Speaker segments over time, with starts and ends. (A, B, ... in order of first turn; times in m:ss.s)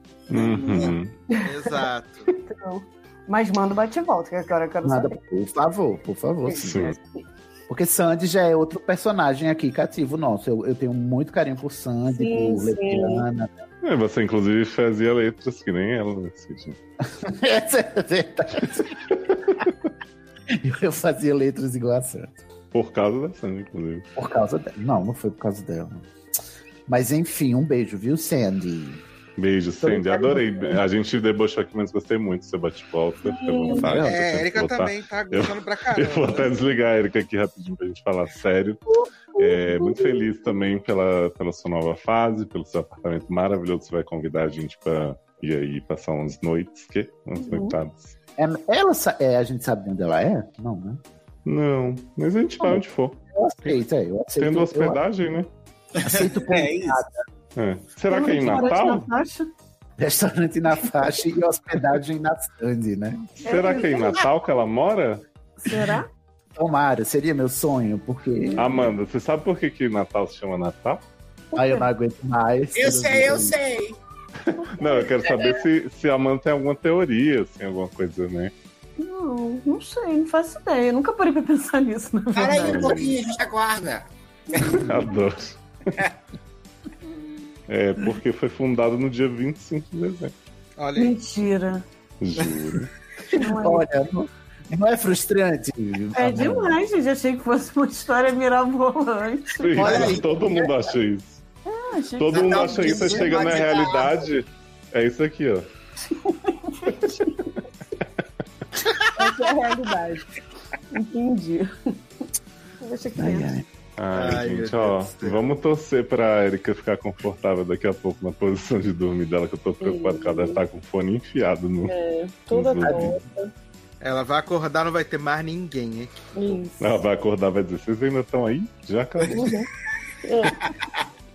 0:00.3-0:01.0 A
0:00.3-0:01.1 B
0:01.3-0:05.2 C
0:01.4-0:02.3 D
0:04.8-0:07.0 E
0:06.6-0:07.0 B
0:07.7-0:13.5 E
0:12.1-0:13.3 C
0:13.8-0:16.8 B
0:17.2-0:19.1 E
0:20.5-0:22.4 E
0:22.7-0:24.1 B
0:24.2-0:26.0 E
0:26.9-0:29.0 E
0:29.4-0:38.8 B
0:29.8-0:30.8 E
0:33.2-0:33.9 C
0:33.7-0:34.2 E
0:34.0-0:36.5 D
0:39.4-0:48.1 B
0:47.4-0:47.8 C
0:48.4-0:51.0 E
0:51.5-0:53.8 B
0:53.3-0:55.3 E
0:54.4-0:55.5 B
0:56.0-0:57.0 A
0:56.0-0:57.1 E
0:57.6-0:59.1 B
0:58.1-0:59.5 C
1:00.0-1:03.3 E
1:03.4-1:04.3 C
1:03.4-1:05.2 B
1:05.6-1:06.1 C
1:06.6-1:08.9 E
1:08.4-1:08.9 C
1:08.6-1:11.0 B
1:11.5-1:13.6 E
1:11.6-1:11.9 C
1:12.8-1:14.0 A
1:14.6-1:18.5 B
1:14.8-1:15.5 C
1:19.0-1:23.1 C
1:22.3-1:24.8 A
1:22.5-1:23.2 B
1:24.6-1:25.6 B
1:27.7-1:30.3 B
1:30.8-1:31.1 D
1:31.0-1:31.8 C
1:32.2-1:32.9 B
1:33.3-1:33.9 C
1:33.4-1:36.8 E
1:36.1-1:40.7 C
1:39.6-1:41.4 B
1:39.8-1:40.2 A
1:41.6-1:43.5 C
1:42.2-1:45.7 B
1:42.3-1:44.2 A
1:46.5-1:47.3 C
1:49.2-1:50.2 C
1:50.9-1:51.7 C
1:52.8-1:53.6 C
1:53.2-1:53.6 E
1:54.0-2:01.9 B
1:54.1-1:55.4 D
1:59.8-2:00.6 C
2:01.8-2:03.5 C
2:02.5-2:03.2 B
2:04.0-2:06.2 D
2:06.3-2:07.0 C
2:06.8-2:09.6 B
2:09.3-2:09.7 C
2:10.2-2:10.6 C